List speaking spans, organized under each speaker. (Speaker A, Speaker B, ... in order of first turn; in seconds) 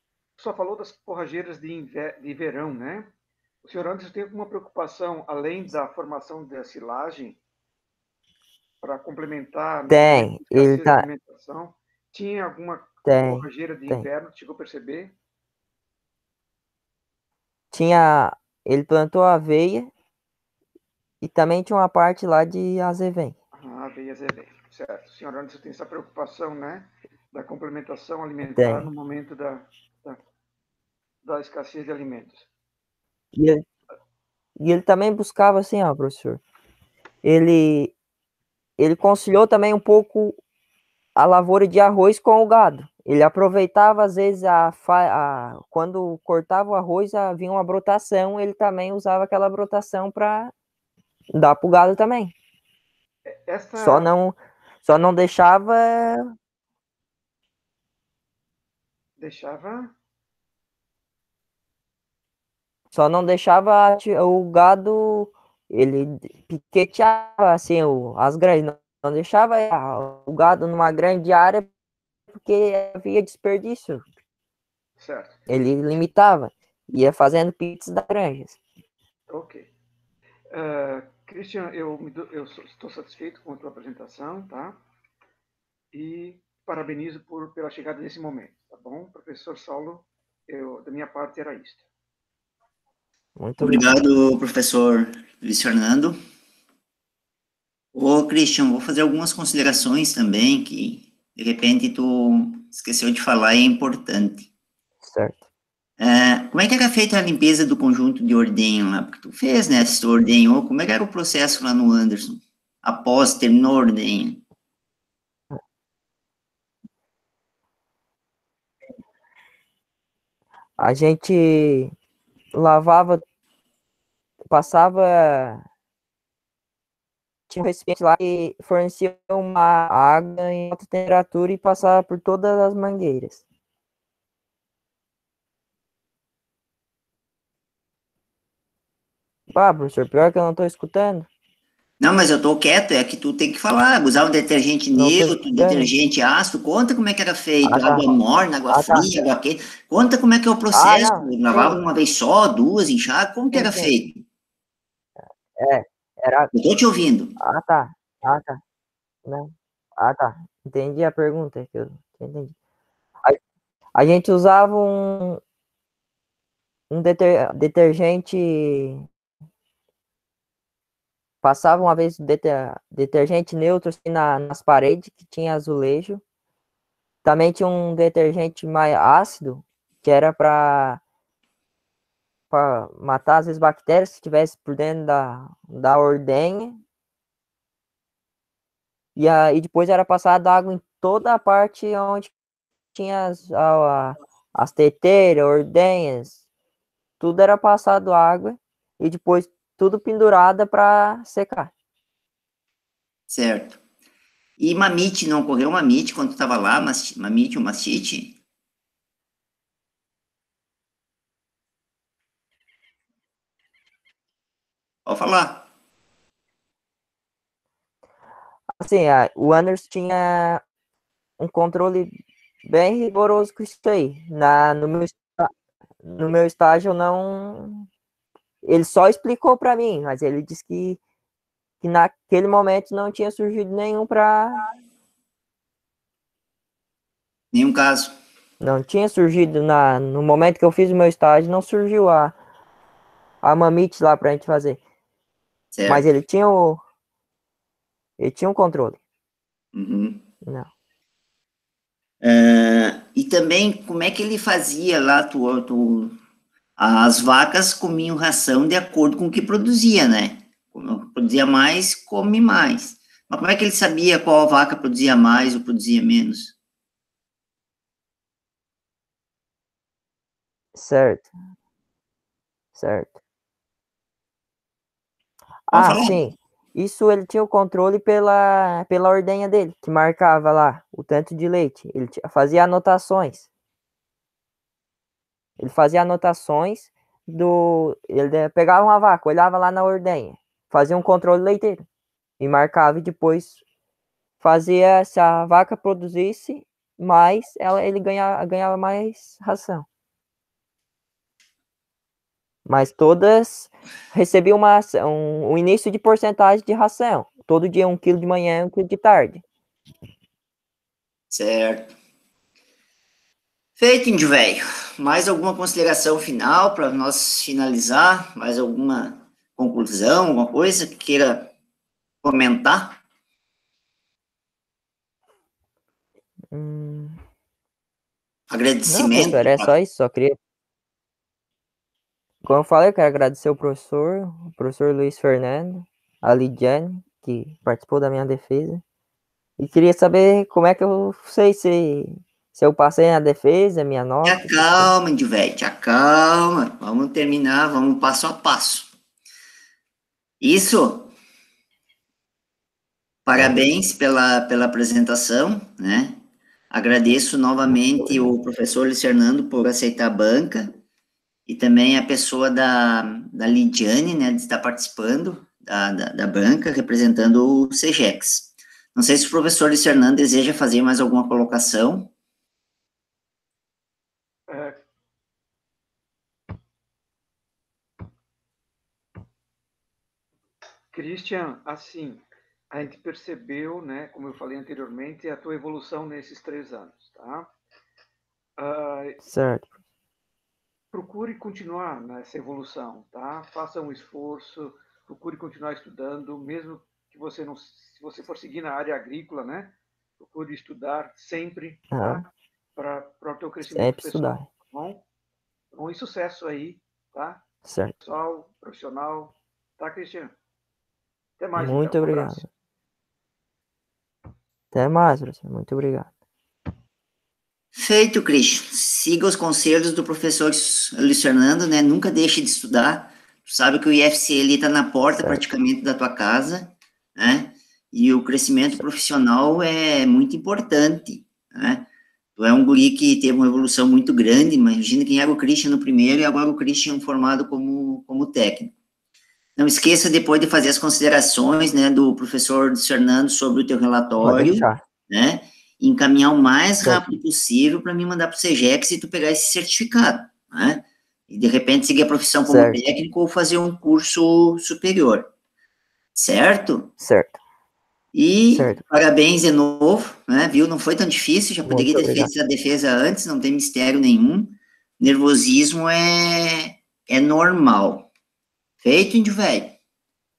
Speaker A: 0.4-3.1, 3.6-7.4, 8.8-15.2, 23.5-30.2, 31.2-32.5, 53.2-54.1, 59.2-59.9, 75.0-75.4, 79.3-79.7, 80.5-84.8, 85.9-91.9, 374.5-374.8, 380.9-387.5, 388.6-389.2, 390.9-405.0, 405.7-407.4, 408.0-410.3, 411.4-412.5
Speaker B: 9.9-11.1, 13.0-14.1, 17.7-19.9, 21.2-23.3, 28.5-28.9, 33.3-33.6, 34.6-36.4, 37.2-37.9, 38.8-40.4, 41.1-50.5, 51.3-52.3, 53.8-56.3, 62.9-71.7, 72.3-74.1, 75.5-78.6, 93.4-93.9, 105.0-105.4, 120.8-121.9, 122.5-123.2, 124.5-125.6, 127.5-133.4, 139.5-141.3, 144.9-145.9, 147.6-148.1, 148.7-149.1, 150.7-151.8, 153.5-153.9, 155.6-156.5, 157.4-158.6, 159.2-162.5, 163.9-165.4, 166.9-169.1, 171.4-176.2, 177.2-181.0, 182.5-186.8, 189.2-192.3, 192.9-196.4, 197.2-201.7, 218.8-220.6, 221.4-222.1, 222.6-225.5, 226.0-227.9, 228.6-231.0, 231.8-234.6, 238.6-242.3, 243.4-244.8, 245.8-246.8, 248.2-249.0, 250.4-250.7, 270.7-271.3, 272.7-273.2, 275.7-283.5, 285.6-291.9, 292.4-293.6, 294.4-299.9, 302.6-309.4, 326.5-327.2, 328.9-330.4, 332.4-338.8, 339.6-344.9, 389.2-389.7, 401.9-402.2, 403.6-404.4, 407.6-407.9, 411.6-412.5, 414.7-416.1, 444.2-444.8, 452.4-452.8, 457.0-457.4, 458.5-458.8, 461.6-462.3
Speaker C: 93.6-96.2, 97.9-104.5, 106.0-114.4, 142.0-154.2, 156.5-157.3, 203.3-203.8, 204.6-208.3, 215.1-215.7, 237.5-238.1, 245.7-246.0, 249.7-250.2, 252.2-256.1, 256.8-266.5, 275.7-276.2, 311.3-311.9, 313.8-321.5, 322.2-323.0, 328.5-329.7, 344.2-348.9, 350.4-351.1, 353.2-356.2, 356.7-360.7, 361.5-372.1, 417.7-431.9, 432.4-438.7, 439.6-455.3, 456.1-456.9, 458.1-468.1, 468.8-469.8